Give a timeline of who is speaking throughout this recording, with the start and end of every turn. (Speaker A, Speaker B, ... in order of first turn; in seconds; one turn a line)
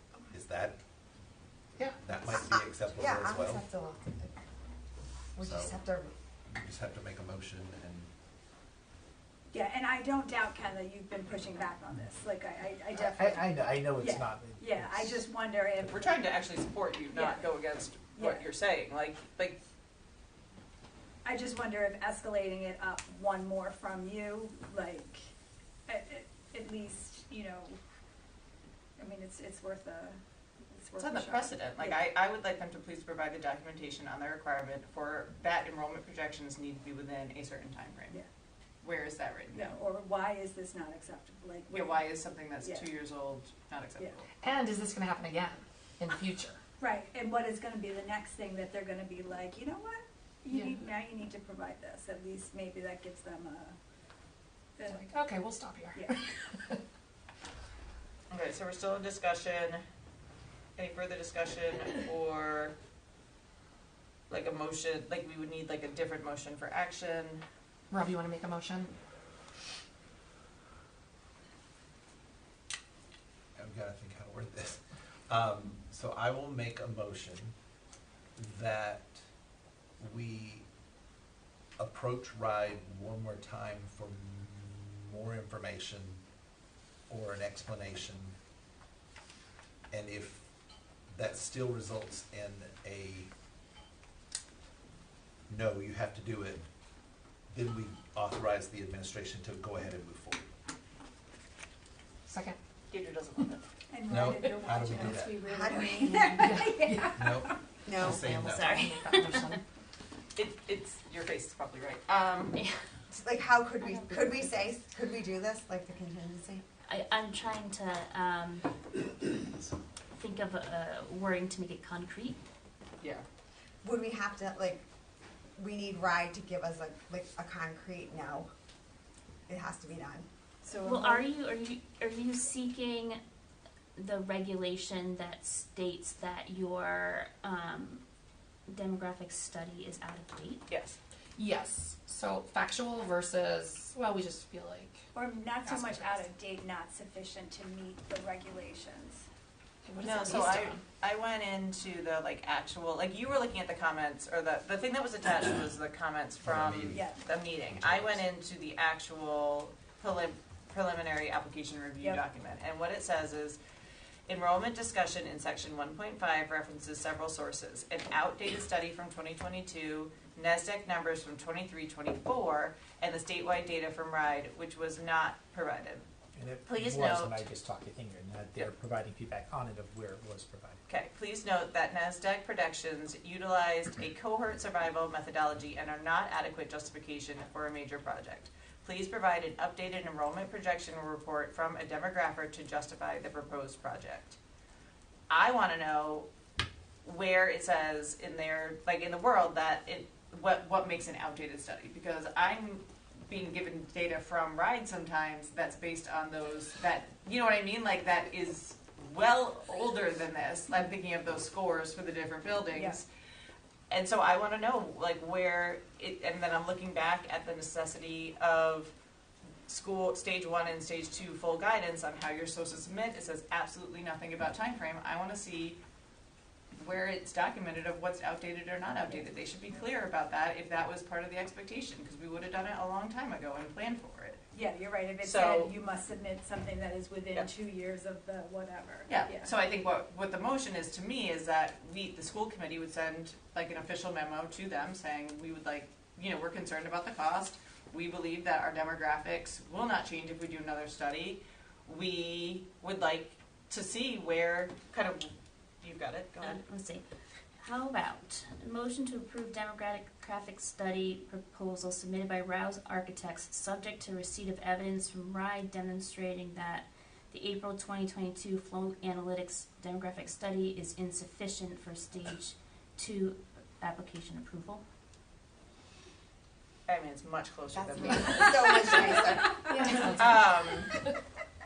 Speaker A: 0.3-0.8
Speaker A: 2.0-3.6
Speaker B: 2.3-4.3
Speaker B: 5.3-6.1
Speaker A: 5.4-5.8
Speaker A: 6.5-8.1
Speaker C: 9.5-16.2
Speaker D: 12.9-15.2
Speaker E: 15.9-19.6
Speaker C: 17.1-17.4
Speaker C: 18.1-18.5
Speaker C: 21.2-25.2
Speaker C: 25.9-27.8
Speaker C: 29.0-30.2
Speaker C: 30.7-32.0
Speaker E: 31.0-38.2
Speaker E: 38.8-39.8
Speaker C: 39.5-42.0
Speaker E: 41.7-44.3
Speaker C: 42.6-42.9
Speaker F: 44.4-46.6
Speaker C: 46.8-53.8
Speaker F: 54.9-55.9
Speaker C: 55.9-56.2
Speaker E: 58.3-59.8
Speaker E: 60.8-62.7
Speaker E: 64.3-67.4
Speaker F: 67.9-68.9
Speaker A: 73.6-77.5
Speaker A: 78.3-79.3
Speaker A: 80.0-80.7
Speaker A: 81.8-86.2
Speaker A: 87.1-88.3
Speaker A: 89.9-90.5
Speaker A: 91.1-93.3
Speaker A: 95.5-96.7
Speaker A: 97.5-100.5
Speaker F: 102.2-102.5
Speaker E: 102.9-103.6
Speaker C: 103.9-107.5
Speaker A: 104.1-105.5
Speaker B: 105.4-106.5
Speaker A: 107.1-109.0
Speaker B: 107.8-108.3
Speaker G: 108.0-109.6
Speaker E: 110.3-112.6
Speaker B: 113.1-116.6
Speaker G: 113.8-114.5
Speaker G: 116.9-118.7
Speaker G: 120.1-122.4
Speaker B: 123.8-124.8
Speaker B: 125.6-128.5
Speaker B: 129.5-130.3
Speaker C: 130.6-131.2
Speaker G: 130.9-133.2
Speaker G: 134.0-138.0
Speaker G: 138.7-140.6
Speaker E: 140.7-141.0
Speaker F: 141.3-145.0
Speaker C: 145.1-149.2
Speaker F: 149.8-150.8
Speaker E: 150.0-163.6
Speaker A: 156.4-157.0
Speaker C: 156.9-157.2
Speaker A: 157.7-158.2
Speaker E: 164.3-176.1
Speaker D: 176.3-180.8
Speaker E: 176.6-177.4
Speaker E: 180.9-194.4
Speaker E: 195.3-196.3
Speaker E: 197.0-213.1
Speaker C: 212.7-213.0
Speaker E: 213.9-218.9
Speaker E: 219.7-225.8
Speaker E: 226.8-234.4
Speaker C: 234.5-239.5
Speaker E: 235.2-235.7
Speaker E: 239.1-256.6
Speaker G: 256.5-257.0
Speaker G: 257.6-274.8
Speaker E: 276.9-279.3
Speaker B: 277.7-280.2
Speaker E: 279.9-280.9